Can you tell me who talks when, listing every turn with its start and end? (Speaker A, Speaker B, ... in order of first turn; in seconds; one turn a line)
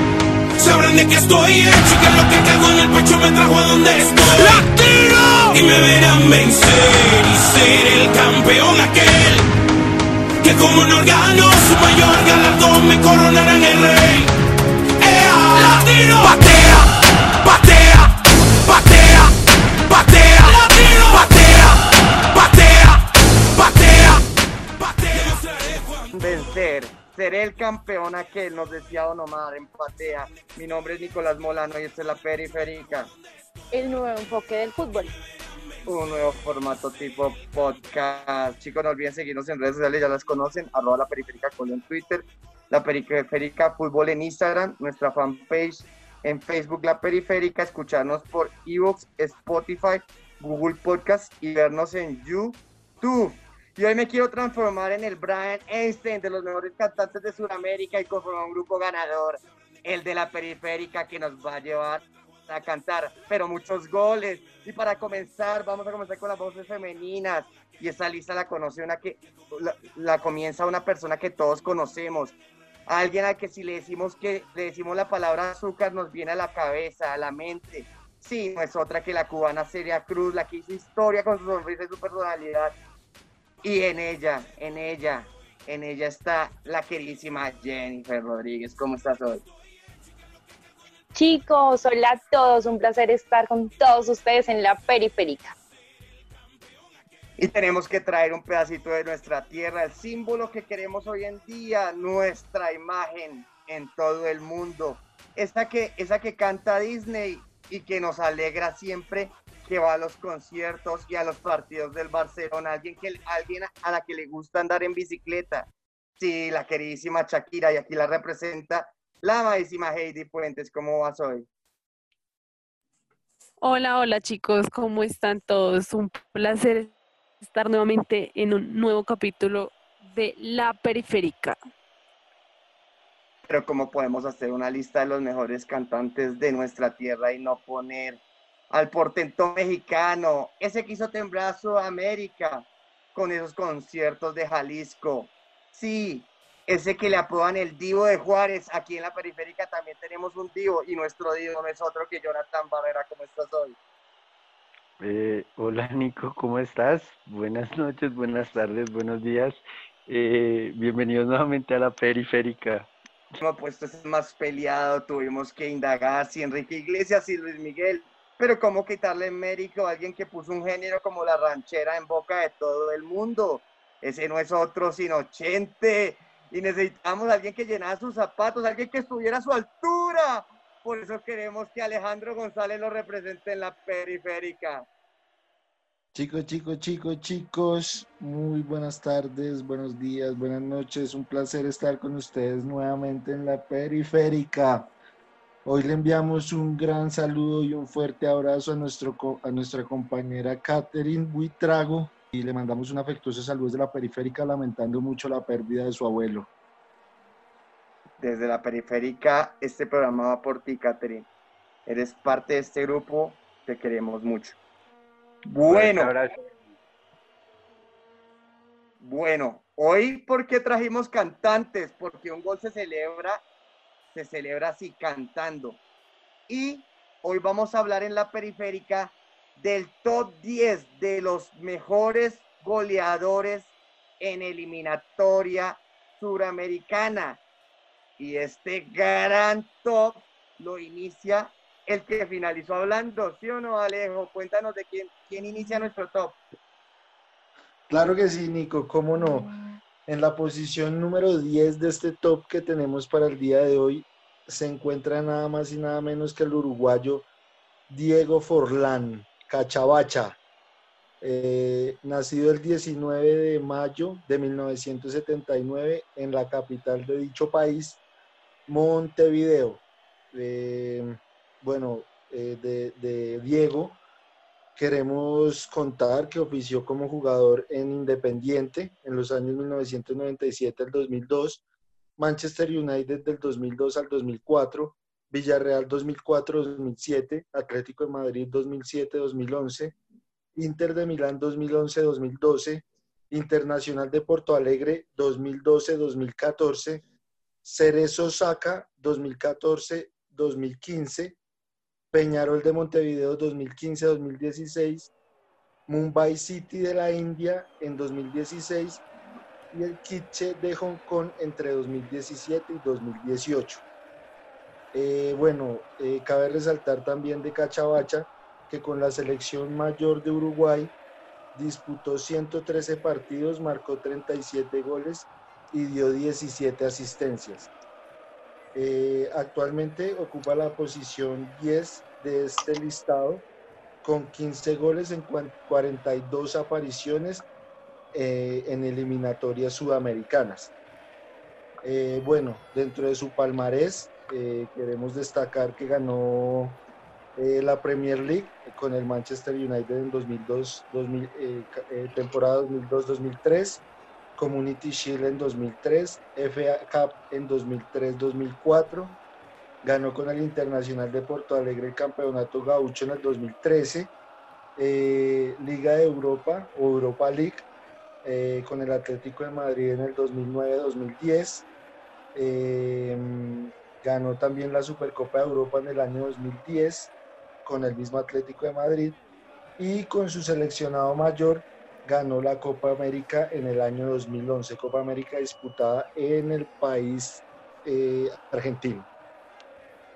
Speaker A: 0.6-9.5
Speaker A: 10.4-14.3
Speaker A: 15.0-24.3
Speaker A: 24.8-26.1
Speaker B: 26.1-33.1
Speaker C: 33.7-35.1
Speaker B: 35.9-72.4
Speaker B: 72.9-82.8
Speaker B: 83.6-89.4
Speaker C: 91.1-95.5
Speaker B: 97.4-115.7
Speaker B: 116.2-121.5
Speaker D: 123.6-131.6
Speaker B: 133.5-153.8
Speaker E: 155.0-159.5
Speaker E: 160.1-162.9
Speaker B: 163.4-184.9
Speaker F: 186.1-194.9
Speaker F: 195.7-206.5
Speaker B: 208.2-211.3
Speaker B: 211.8-214.6
Speaker B: 215.5-216.1
Speaker E: 215.7-216.5
Speaker B: 219.0-223.4
Speaker B: 224.1-225.8
Speaker B: 226.5-237.4
Speaker B: 238.2-246.4
Speaker F: 247.9-249.5
Speaker F: 250.1-257.2
Speaker F: 257.9-260.4
Speaker F: 261.2-268.0
Speaker F: 268.7-274.0
Speaker F: 274.8-281.6
Speaker F: 282.2-289.9
Speaker F: 290.6-297.0
Speaker F: 297.6-301.4
Speaker F: 302.1-305.1
Speaker F: 305.9-309.0
Speaker F: 309.7-313.8
Speaker F: 314.9-320.9
Speaker F: 321.5-327.7
Speaker F: 328.7-333.4
Speaker F: 334.0-337.5
Speaker F: 338.1-340.7
Speaker F: 341.8-346.8
Speaker F: 347.4-353.8
Speaker F: 354.4-359.2
Speaker F: 359.8-364.1
Speaker F: 364.8-367.7
Speaker F: 368.2-371.7
Speaker F: 372.3-377.1
Speaker F: 377.6-379.2
Speaker F: 379.8-389.1